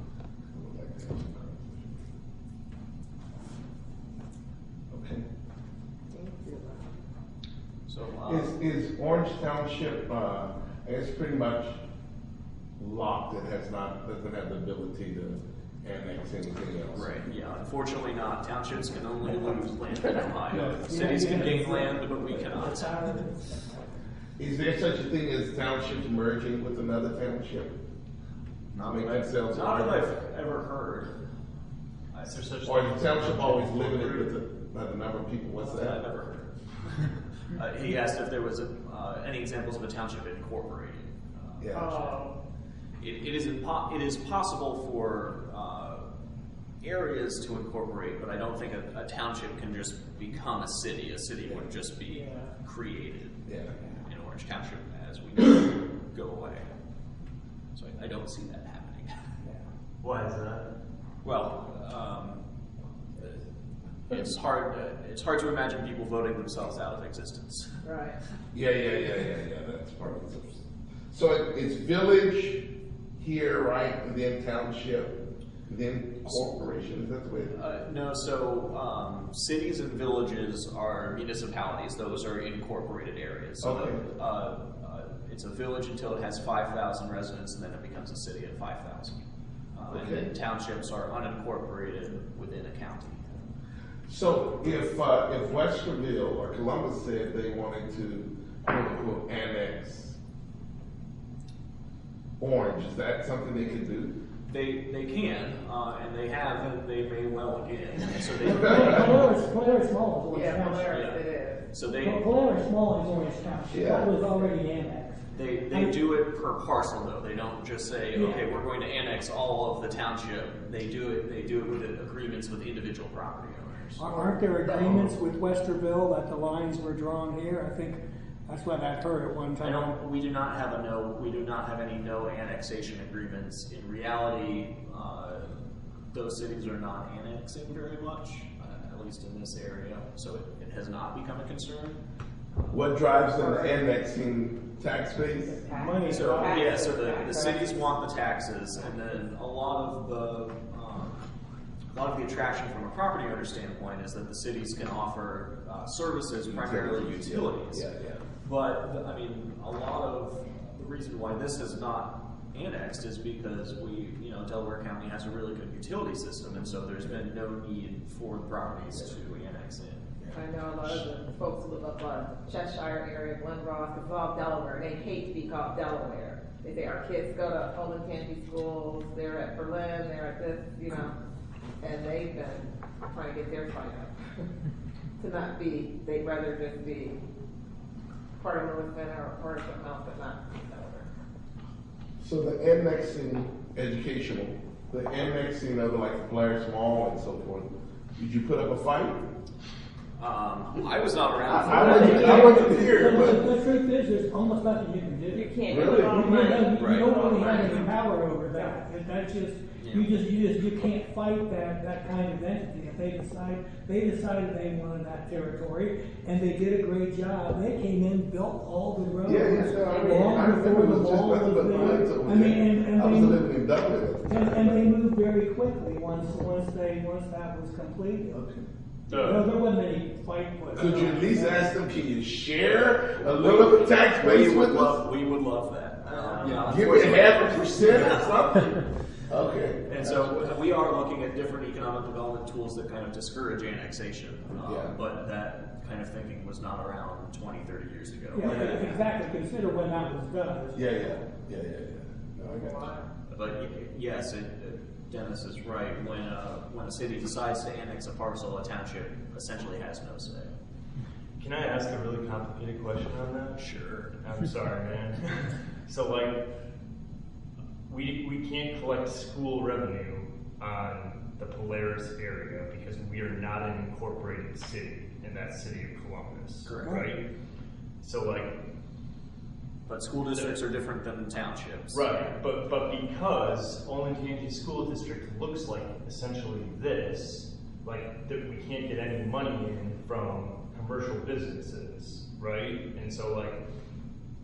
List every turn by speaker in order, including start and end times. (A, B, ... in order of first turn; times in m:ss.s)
0:00.5-0:02.1 A
0:04.9-0:05.2 A
0:06.1-0:06.8 B
0:07.9-0:08.5 C
0:08.3-0:11.8 A
0:12.8-0:17.2 A
0:16.9-0:23.1 C
0:20.5-0:23.8 D
0:24.4-0:27.8 A
0:28.7-0:31.1 C
0:28.8-0:30.1 A
0:32.1-0:32.8 C
0:32.2-0:34.3 E
0:32.6-0:36.0 A
0:35.6-0:42.2 C
0:41.6-0:42.0 A
0:41.8-0:42.3 B
0:43.0-0:46.1 C
0:46.8-0:53.5 C
0:51.4-0:51.7 A
0:53.5-0:53.8 A
0:54.0-0:56.7 C
0:57.8-0:59.2 C
1:00.0-1:00.7 E
1:01.2-1:02.4 C
1:04.1-1:07.8 C
1:07.8-1:08.2 B
1:08.5-1:12.6 A
1:13.2-1:17.6 A
1:16.2-1:16.7 C
1:17.5-1:29.2 C
1:23.6-1:24.1 A
1:29.7-1:33.3 C
1:29.9-1:30.3 A
1:34.1-1:40.2 A
1:42.4-1:44.1 A
1:44.5-1:49.4 C
1:48.4-1:50.9 D
1:48.5-1:49.1 A
1:50.3-1:51.7 B
1:50.8-1:52.3 C
1:52.0-1:56.0 D
1:53.7-1:54.1 A
1:55.3-2:04.2 C
1:58.2-1:58.4 D
2:04.0-2:10.0 D
2:09.6-2:15.5 C
2:16.1-2:22.0 C
2:22.7-2:25.6 A
2:23.4-2:23.8 B
2:25.6-2:28.0 B
2:25.7-2:26.8 D
2:26.1-2:31.2 C
2:31.9-2:37.9 C
2:36.4-2:38.2 A
2:38.4-2:50.1 C
2:50.2-2:51.0 A
2:50.3-3:01.1 B
3:01.8-3:04.2 B
3:05.2-3:07.2 B
3:08.4-3:11.1 B
3:12.2-3:19.2 A
3:20.2-3:23.4 C
3:21.5-3:23.4 A
3:21.7-3:48.4 D
3:25.3-3:27.9 B
3:25.7-3:26.3 A
3:26.6-3:27.8 C
3:29.8-3:30.1 C
3:39.2-3:44.9 A
3:39.8-3:40.5 B
3:48.3-3:48.7 A
3:49.1-3:49.5 E
3:49.2-3:51.8 D
3:50.7-3:55.0 A
3:53.1-3:58.9 C
3:56.4-3:58.7 A
3:59.3-4:00.6 A
3:59.8-4:09.0 C
4:04.6-4:05.0 A
4:08.3-4:11.3 D
4:08.5-4:08.8 B
4:10.8-4:12.9 A
4:12.4-4:13.1 B
4:13.3-4:20.6 C
4:21.4-4:26.4 E
4:23.6-4:24.1 C
4:27.9-4:37.3 E
4:36.6-4:37.1 C
4:38.0-4:38.6 E
4:39.9-4:42.3 C
4:40.2-4:40.6 E
4:41.9-4:53.6 E